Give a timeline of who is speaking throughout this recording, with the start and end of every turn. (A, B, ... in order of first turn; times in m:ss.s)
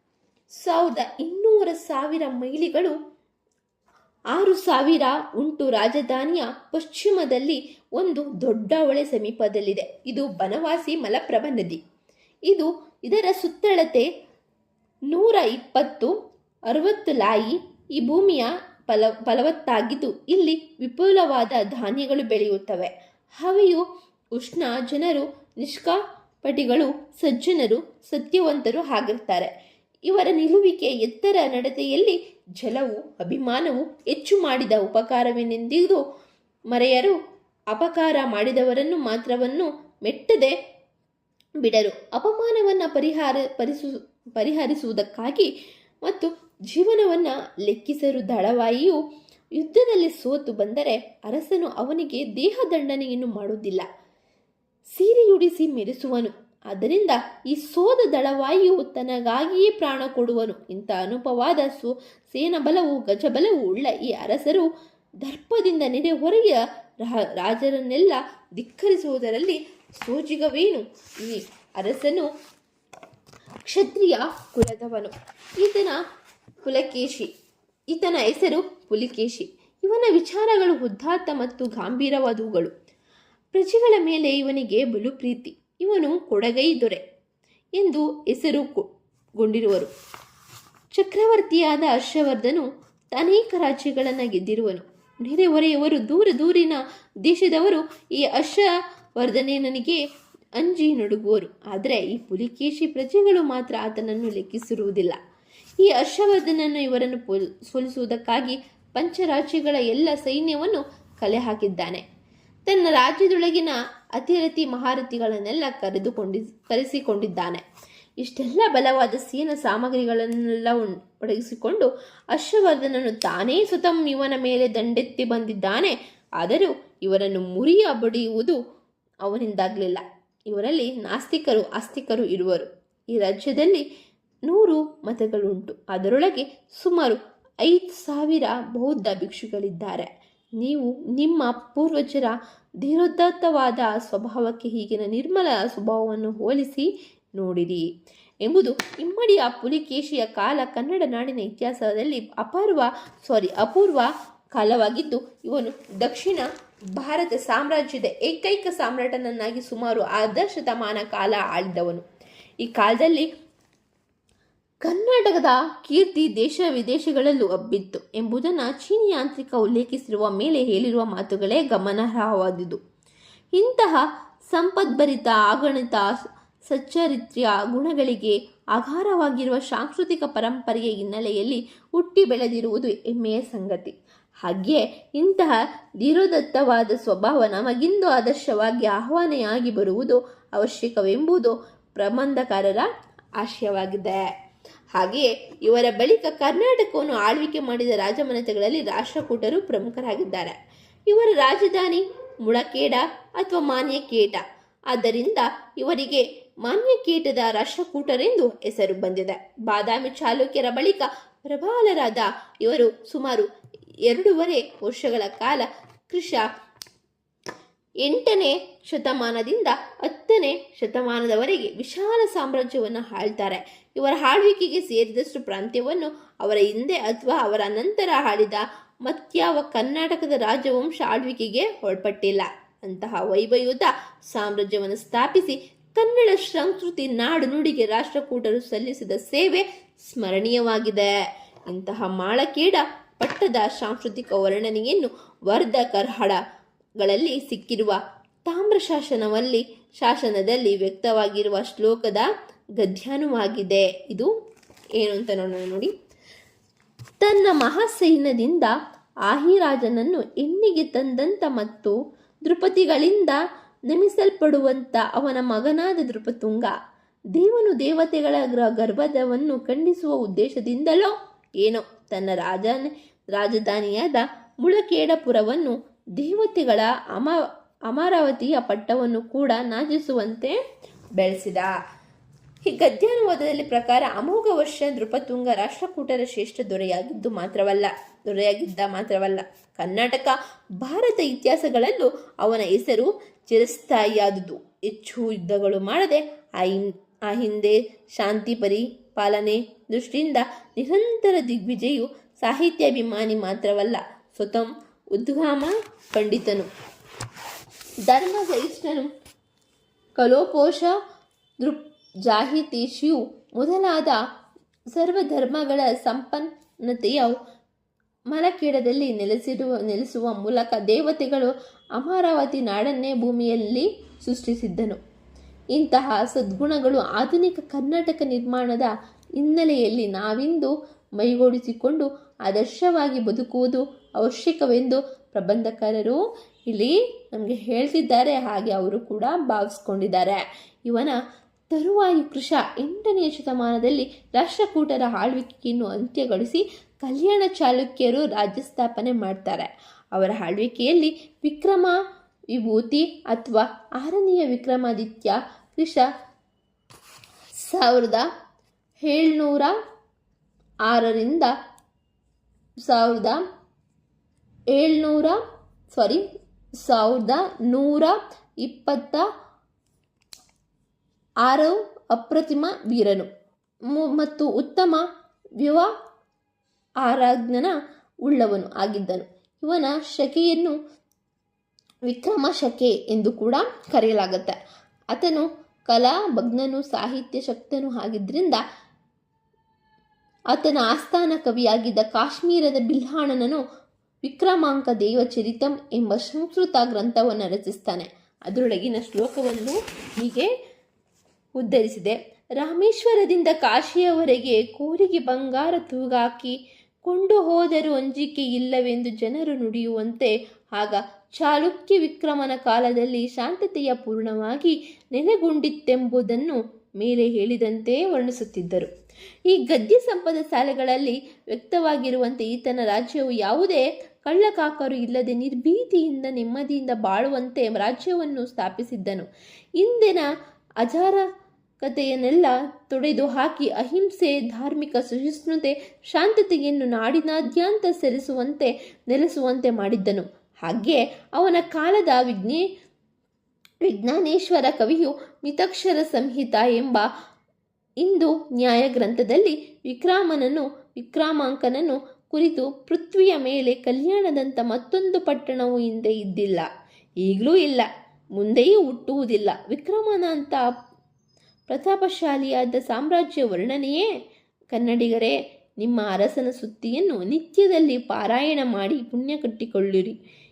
0:00.5-0:03.0 A
0:04.3-0:11.8 A
0:12.5-0:14.1 A
0:15.1-0:16.2 A
0:16.7-0:23.8 A
0:24.4-0:29.5 A
0:30.1-0:36.0 A
0:36.7-0:37.2 A
0:37.7-0:40.6 A
0:41.6-0:45.5 A
0:46.0-0:49.0 A
0:49.6-0:53.9 A
0:54.9-1:04.7 A
1:05.2-1:12.3 A
1:13.7-1:16.0 A
1:16.6-1:17.3 A
1:17.9-1:22.7 A
1:23.5-1:27.0 A
1:27.8-1:29.9 A
1:30.9-1:40.0 A
1:40.6-1:45.2 A
1:45.8-1:52.0 A
1:52.7-1:57.6 A
1:58.2-2:08.6 A
2:09.2-2:13.8 A
2:14.5-2:20.1 A
2:20.6-2:27.9 A
2:28.4-2:42.0 A
2:42.6-2:43.3 A
2:44.8-2:52.8 A
2:53.5-3:12.9 A
3:13.4-3:14.3 A
3:15.0-3:20.6 A
3:21.1-3:33.5 A
3:34.1-3:36.5 A
3:38.0-4:01.1 A
4:01.7-4:06.4 A
4:07.0-4:12.3 A
4:12.8-4:14.3 A
4:15.0-4:15.9 A
4:17.2-4:18.7 A
4:19.3-4:22.0 A
4:22.5-4:26.7 A
4:27.3-4:40.6 A
4:41.2-4:41.7 A
4:42.6-5:06.7 A
5:08.1-5:09.1 A
5:10.2-5:10.9 A
5:11.6-5:14.2 A
5:14.9-5:17.4 A
5:18.3-5:25.0 A
5:25.7-5:41.2 A
5:41.7-5:52.0 A
5:52.5-5:56.1 A
5:57.6-5:58.3 A
5:59.0-5:59.8 A
6:00.9-6:01.5 A
6:02.8-6:03.4 A
6:04.7-6:05.4 A
6:05.9-6:06.3 A
6:06.8-6:09.2 A
6:11.4-6:13.3 A
6:13.9-6:15.1 A
6:15.6-6:15.9 A
6:17.0-6:20.8 A
6:22.1-6:24.6 A
6:25.1-6:28.6 A
6:30.5-6:33.6 A
6:34.2-6:40.5 A
6:41.6-6:58.9 A
6:59.4-7:09.3 A
7:09.8-7:10.3 A
7:10.8-7:11.2 A
7:11.8-7:22.6 A
7:23.8-7:27.1 A
7:28.0-7:36.7 A
7:37.2-7:40.6 A
7:41.7-7:44.1 A
7:44.7-7:50.2 A